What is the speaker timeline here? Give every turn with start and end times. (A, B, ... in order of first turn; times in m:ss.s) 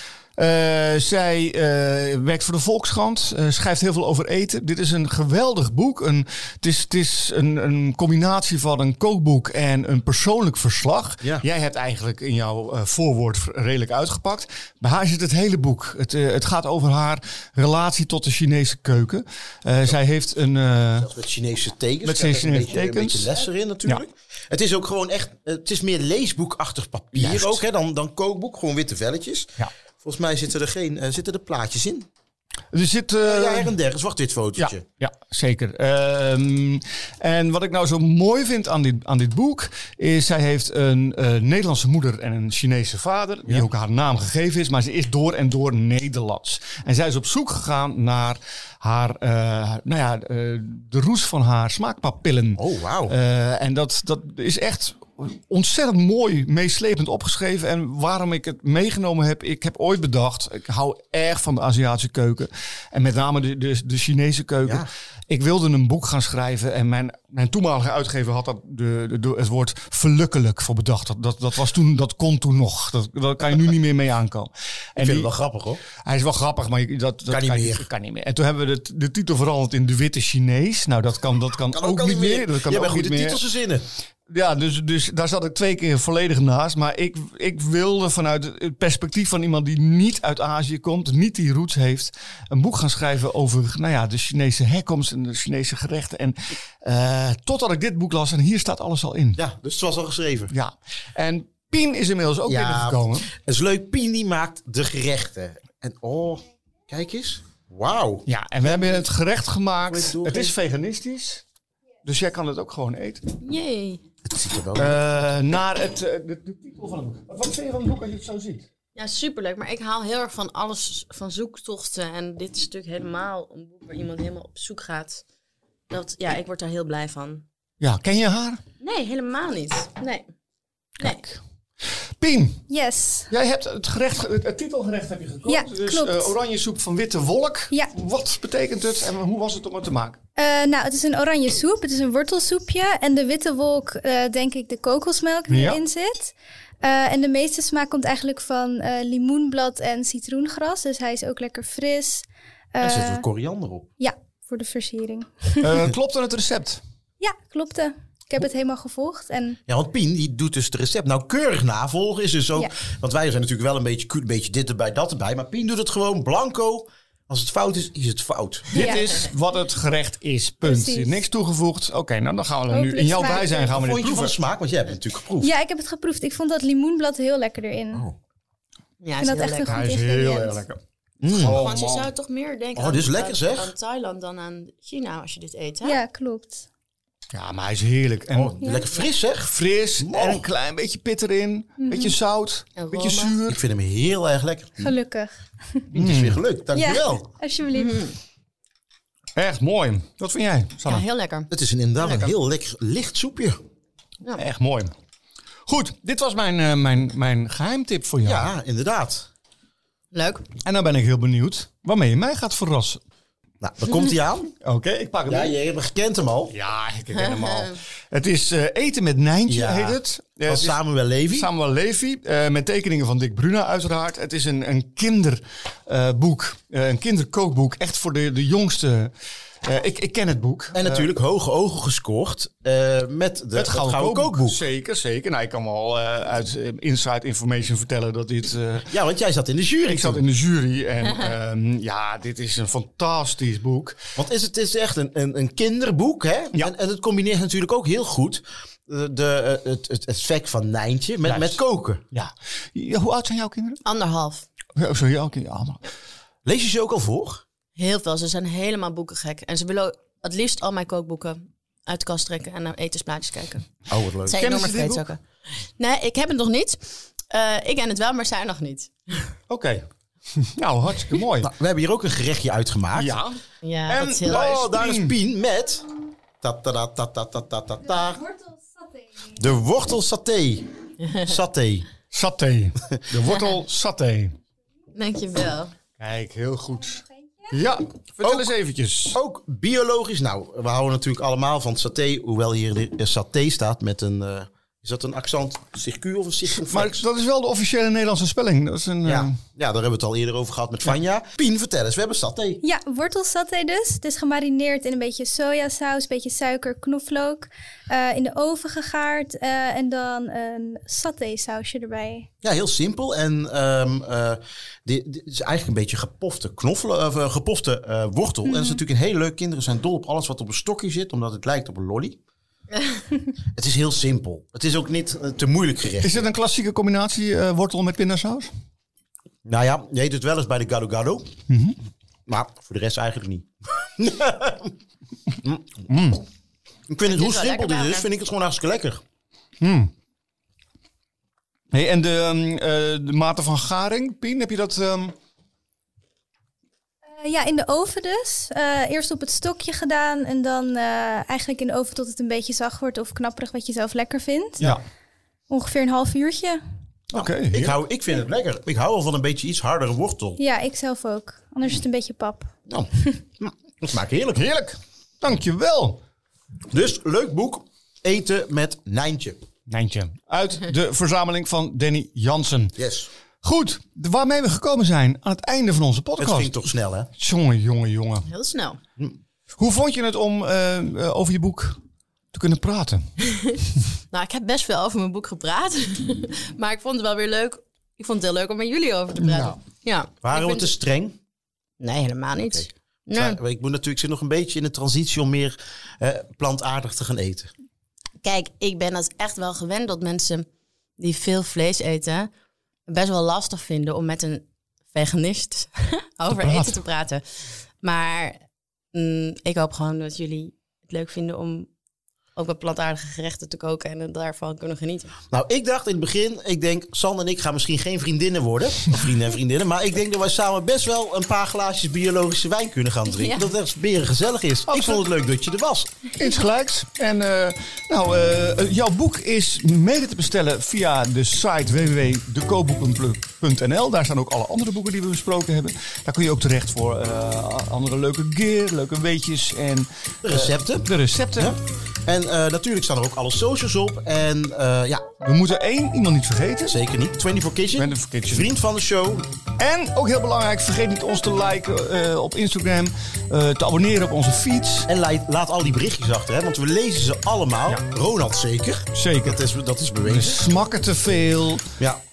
0:00.4-0:21.1 A
0:21.0-0:32.1 B
0:22.0-0:23.3 A
0:27.1-0:27.6 A
0:32.7-0:33.7 A
0:33.2-0:34.8 B
0:34.6-1:15.3 A
0:52.6-0:53.1 B
1:15.0-1:15.8 B
1:16.0-1:23.4 A
1:17.3-1:17.9 B
1:21.7-1:23.8 B
1:24.3-1:39.4 A
1:39.4-1:40.5 B
1:40.5-1:43.3 A
1:42.4-1:49.0 B
1:48.2-1:51.4 A
1:49.9-1:50.5 B
1:52.0-1:53.2 A
1:53.4-1:54.0 C
1:54.2-1:55.0 B
1:54.7-1:58.6 A
1:59.0-2:05.2 C
2:05.9-2:07.4 C
2:07.8-2:08.6 A
2:08.8-2:10.2 C
2:11.0-2:11.4 A
2:12.2-2:12.6 A
2:12.7-2:13.3 D
2:13.3-2:20.2 A
2:15.5-2:16.3 D
2:20.4-2:33.2 D
2:25.5-2:25.8 A
2:32.8-2:33.9 B
2:34.0-2:35.7 D
2:35.6-2:36.8 A
2:37.2-2:39.6 D
2:39.7-2:48.7 B
2:48.7-2:54.4 A
2:50.6-2:51.2 D
2:52.7-2:53.7 D
2:53.7-2:55.5 B
2:55.4-2:58.1 D
2:59.0-2:59.8 C
2:59.2-3:00.6 D
2:59.6-3:02.1 A
3:01.2-3:01.6 B
3:01.6-3:06.0 C
3:02.8-3:03.7 B
3:05.8-3:06.6 D
3:07.3-3:08.6 A
3:08.3-3:10.4 B
3:08.6-3:08.9 D
3:09.5-3:13.6 A
3:12.8-3:13.4 C
3:13.5-3:14.8 B
3:14.8-3:15.4 D
3:15.9-3:16.4 A
3:15.9-3:17.3 B
3:16.7-3:18.0 D
3:17.7-3:18.2 C
3:19.4-3:21.0 A
3:20.8-3:21.5 C
3:21.5-3:23.6 B
3:22.0-3:22.3 C
3:24.4-3:24.9 A
3:25.7-3:28.5 A
3:28.2-3:29.3 B
3:30.1-3:30.4 C
3:30.6-3:33.0 A
3:33.6-3:34.5 B
3:34.6-3:35.6 A
3:35.3-3:36.5 B
3:36.5-3:40.8 A
3:37.1-3:37.8 C
3:39.5-3:41.5 B
3:41.3-3:51.0 A
3:50.7-3:54.6 B
3:53.5-3:58.9 A
3:58.9-4:00.2 B
3:59.8-4:04.0 A
4:04.2-4:12.0 B
4:11.2-4:11.6 A
4:12.1-4:13.8 A
4:13.8-4:14.4 C
4:14.7-4:15.8 A
4:16.4-4:17.4 B
4:17.8-4:23.7 C
4:23.9-4:24.4 B
4:24.3-4:25.2 C
4:24.3-4:25.0 A
4:25.8-4:29.3 C
4:29.5-4:31.5 A
4:31.4-4:33.2 B
4:32.9-4:35.1 A
4:33.6-4:34.6 C
4:34.2-4:35.9 B
4:36.4-4:38.2 B
4:38.3-4:38.6 D
4:39.3-4:40.7 B
4:41.0-4:41.3 C
4:41.2-4:41.9 B
4:42.1-4:44.4 A
4:43.3-4:43.5 C
4:44.9-4:45.7 C
4:46.0-4:49.2 A
4:48.2-4:48.5 B
4:49.1-4:57.0 B
4:56.6-4:59.4 A
4:59.0-5:02.6 B
5:02.6-5:12.3 D
5:12.4-5:22.2 B
5:18.5-5:18.8 D
5:23.5-5:26.2 B
5:26.0-5:28.5 A
5:29.4-5:31.3 B
5:31.5-5:31.8 A
5:32.3-5:34.7 B
5:35.4-5:35.8 B
5:35.9-5:36.2 A
5:36.9-5:39.0 B
5:37.1-5:38.1 C
5:39.6-5:39.9 A
5:41.7-5:45.1 A
5:47.2-5:54.6 D
5:55.5-5:56.6 D
5:57.1-5:57.8 A
5:57.1-6:00.4 B
6:00.4-6:02.5 D
6:02.7-6:04.5 B
6:04.3-6:06.0 A
6:06.7-6:09.4 B
6:09.7-6:12.8 A
6:12.8-6:13.1 B
6:13.4-6:16.6 A
6:16.2-6:17.1 B
6:17.1-6:18.3 A
6:18.3-6:18.8 C
6:19.6-6:21.8 A
6:22.3-6:23.1 A
6:23.3-6:23.6 C
6:24.1-6:30.7 C
6:29.2-6:29.6 A
6:30.2-6:31.2 B
6:31.8-6:33.4 C
6:32.4-6:37.5 B
6:38.2-6:40.5 C
6:41.0-6:42.3 C
6:42.9-6:48.4 C
6:46.3-6:46.8 A
6:48.9-6:51.7 C
6:52.4-6:55.1 C
6:55.3-7:05.9 B
7:03.1-7:03.5 C
7:04.7-7:05.0 A
7:06.2-7:21.5 A
7:20.2-7:25.0 B
7:25.2-7:26.8 A
7:26.6-7:29.3 B
7:27.8-7:28.5 A
7:29.6-7:34.9 A
7:34.9-7:40.4 B
7:38.9-7:39.4 A
7:40.0-7:41.7 A